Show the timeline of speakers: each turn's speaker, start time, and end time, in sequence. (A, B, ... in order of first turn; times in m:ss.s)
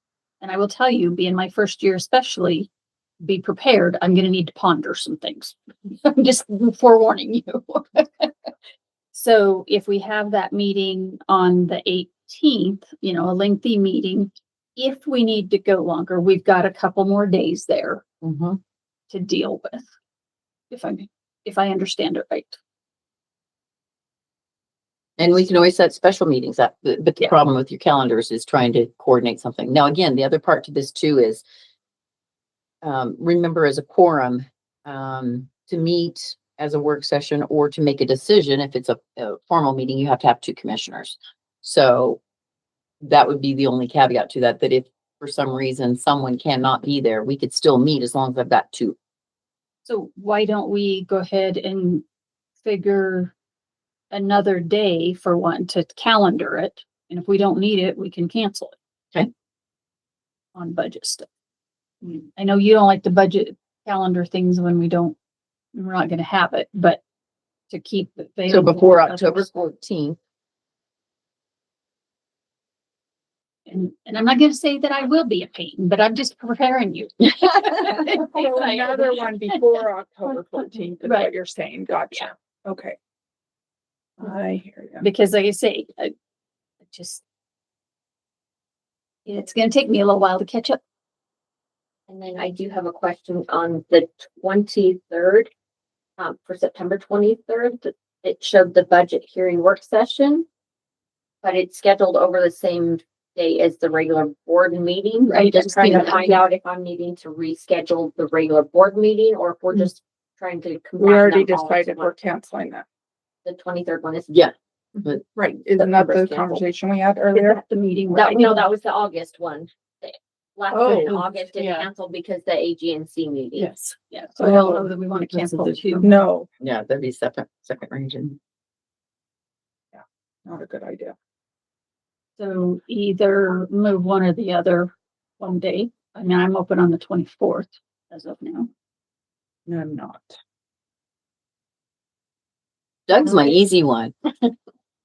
0:00.4-0:02.7 A
0:03.2-0:08.5 A
0:09.1-0:18.0 A
0:18.2-0:18.6 B
0:19.1-0:19.9 A
0:20.7-0:22.6 A
0:25.2-0:31.4 B
0:32.8-0:42.2 B
0:43.0-0:49.0 B
0:49.8-0:52.0 A
0:52.6-0:53.3 A
0:54.1-0:58.8 A
1:00.5-1:01.2 A
1:02.0-1:05.2 A
1:05.7-1:07.0 A
1:07.7-1:09.5 A
1:08.5-1:10.2 B
1:13.7-1:19.6 A
1:17.4-1:17.7 B
1:18.1-1:23.0 C
1:20.3-1:21.3 A
1:24.2-1:25.0 C
1:25.0-1:26.1 A
1:26.9-1:27.2 A
1:29.2-1:30.8 A
1:32.1-1:35.5 D
1:36.2-1:40.4 D
1:41.4-1:52.1 D
1:45.3-1:46.4 A
1:51.0-1:52.8 C
1:53.4-1:54.4 D
1:55.3-1:57.6 C
1:55.7-1:56.6 D
1:57.3-1:58.6 A
1:58.1-2:03.7 D
2:00.7-2:01.2 C
2:03.5-2:04.8 C
2:04.1-2:06.1 A
2:06.0-2:06.5 C
2:06.6-2:08.4 B
2:09.9-2:11.1 C
2:12.4-2:18.7 A
2:19.7-2:20.4 C
2:23.1-2:24.5 B
2:23.3-2:23.5 A